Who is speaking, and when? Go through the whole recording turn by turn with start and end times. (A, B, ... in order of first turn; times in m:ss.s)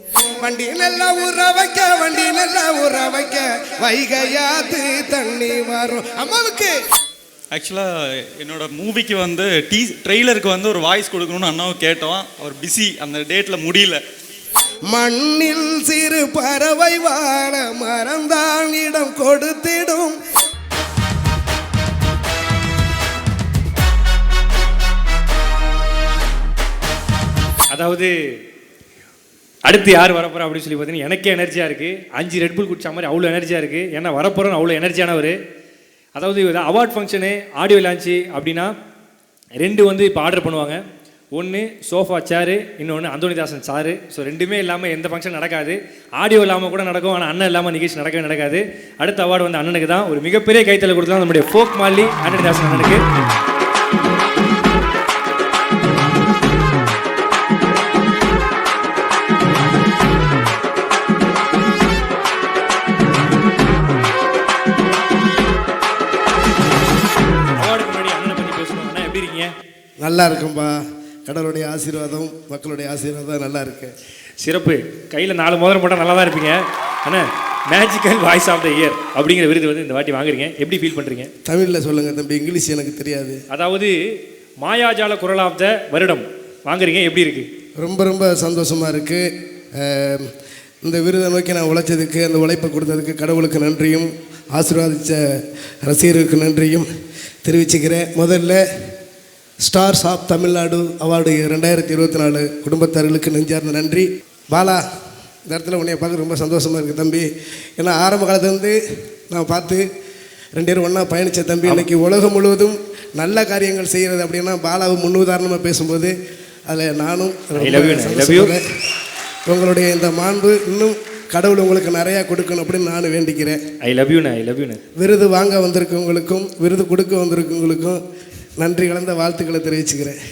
0:00.4-0:06.7 A
0:07.5-0:07.9 B
0:08.4-0:14.0 B
0:14.9-0:20.2 A
0:27.7-0:28.1 C
0:29.7-0:35.4 C
0:36.2-0:38.7 C
0:39.6-0:40.8 C
0:41.3-0:53.0 C
1:07.5-1:09.5 C
1:10.0-1:13.9 A
1:14.4-1:21.3 C
1:21.5-1:23.4 A
1:23.5-1:24.0 C
1:24.6-1:27.5 C
1:27.8-1:29.2 A
1:29.8-1:30.3 A
1:30.8-1:35.2 A
1:35.8-1:36.9 A
1:37.4-1:38.6 A
1:39.6-1:44.8 A
1:45.5-1:48.8 A
1:49.3-1:49.8 A
1:50.6-1:56.1 A
1:56.7-1:58.6 A
1:57.6-1:58.6 C
1:59.5-2:03.6 A
2:03.8-2:04.8 C
2:05.0-2:08.0 A
2:08.6-2:10.2 A